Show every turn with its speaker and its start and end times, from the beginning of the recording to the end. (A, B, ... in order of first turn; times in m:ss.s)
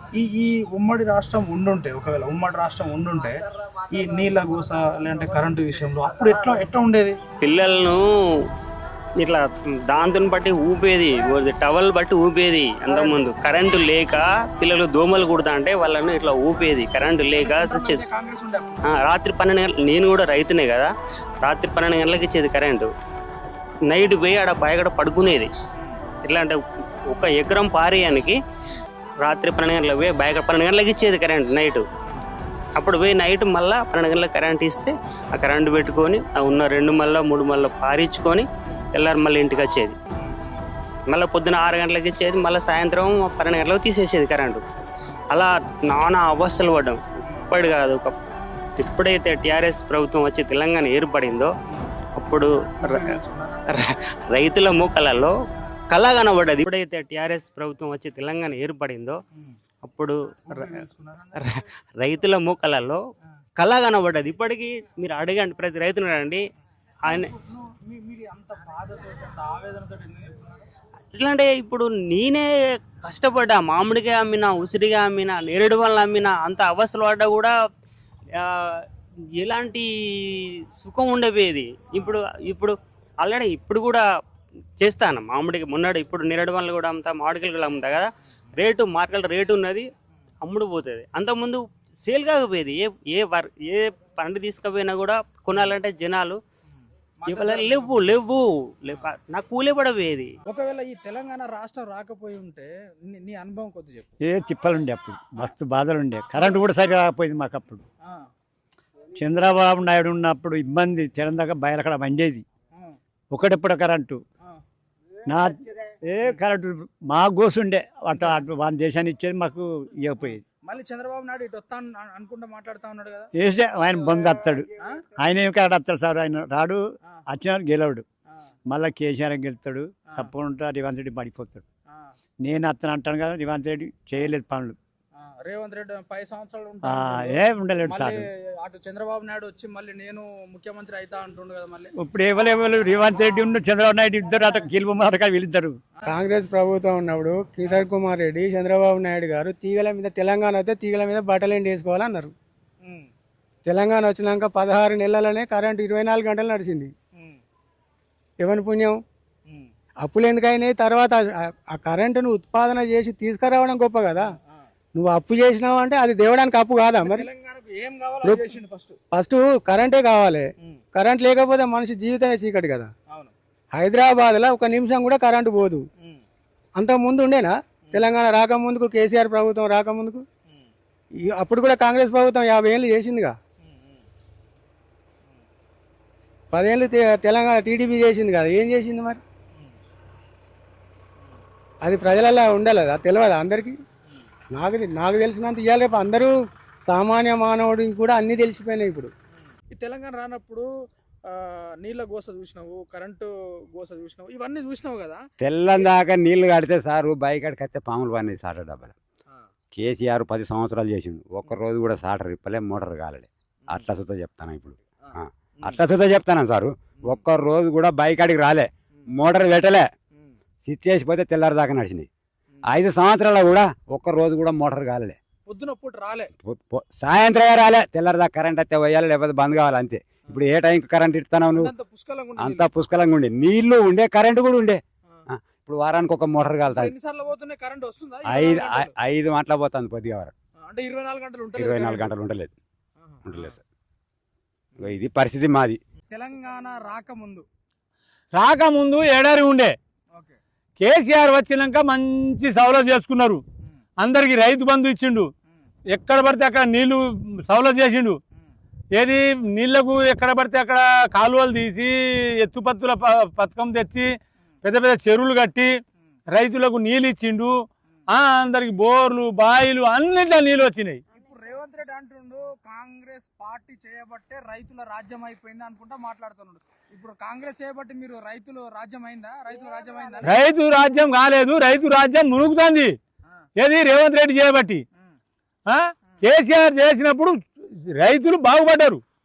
0:00.2-0:03.4 A
0:03.9-0:07.2 A
0:07.4-0:08.0 B
0:09.2-0:18.1 B
0:12.9-0:13.2 A
0:17.4-0:18.9 A
0:18.8-0:22.9 B
0:23.9-0:25.5 B
0:26.2-0:26.6 B
0:27.1-0:28.4 B
0:29.2-0:31.8 B
0:32.1-0:32.4 A
0:32.8-0:40.0 B
0:40.2-0:40.6 A
0:41.1-0:44.6 B
0:45.3-0:48.1 B
0:47.2-0:47.5 A
0:48.8-0:51.5 B
0:52.2-0:55.3 B
0:52.8-0:53.7 A
0:55.9-0:59.2 B
0:59.8-1:00.8 B
1:00.5-1:01.5 A
1:01.4-1:03.0 B
1:03.6-1:06.4 B
1:07.1-1:07.3 B
1:07.1-1:10.6 A
1:11.1-1:12.4 B
1:13.0-1:17.5 B
1:18.4-1:18.8 B
1:19.4-1:24.0 B
1:24.8-1:29.8 B
1:30.4-1:36.4 B
1:36.7-1:38.0 A
1:37.3-1:40.3 B
1:40.5-1:44.1 A
1:44.2-1:47.8 C
1:49.2-1:52.4 C
1:53.3-1:54.2 C
1:55.3-2:00.4 C
1:58.1-1:58.4 A
2:00.3-2:03.3 A
2:03.4-2:04.7 C
2:05.2-2:08.0 C
2:08.7-2:11.6 C
2:12.4-2:14.8 C
2:15.2-2:21.9 A
2:16.8-2:18.2 C
2:22.0-2:25.8 C
2:26.1-2:32.3 D
2:32.8-2:33.1 A
2:33.7-2:36.9 D
2:37.1-2:37.4 A
2:38.4-2:39.0 D
2:40.0-2:44.3 D
2:44.2-2:44.7 A
2:44.9-2:47.3 D
2:47.0-2:49.0 A
2:49.1-2:52.9 D
2:53.7-2:55.8 D
2:56.8-3:00.2 D
3:01.2-3:03.3 D
3:03.6-3:04.0 A
3:06.5-3:09.2 D
3:11.8-3:13.8 D
3:14.5-3:19.1 D
3:19.4-3:20.7 A
3:21.3-3:25.2 A
3:25.4-3:28.9 E
3:29.7-3:39.8 E
3:35.0-3:35.8 A
3:40.6-3:42.1 E
3:42.7-3:45.2 E
3:45.5-3:46.3 A
3:46.4-3:51.7 E
3:51.5-3:52.7 A
3:52.4-3:56.9 E
3:56.7-3:58.9 A
3:58.3-4:00.3 E
4:00.7-4:02.1 A
4:01.5-4:02.5 E
4:03.0-4:03.6 A
4:03.2-4:03.6 E
4:04.8-4:05.8 E
4:06.1-4:07.4 A
4:08.3-4:09.8 F
4:10.1-4:10.4 A
4:10.8-4:13.4 F
4:14.0-4:15.3 F
4:15.9-4:18.2 F
4:18.9-4:24.1 F
4:24.6-4:31.0 F
4:31.1-4:40.4 A
4:40.2-4:43.0 F
4:43.6-4:44.8 F
4:45.7-4:49.0 F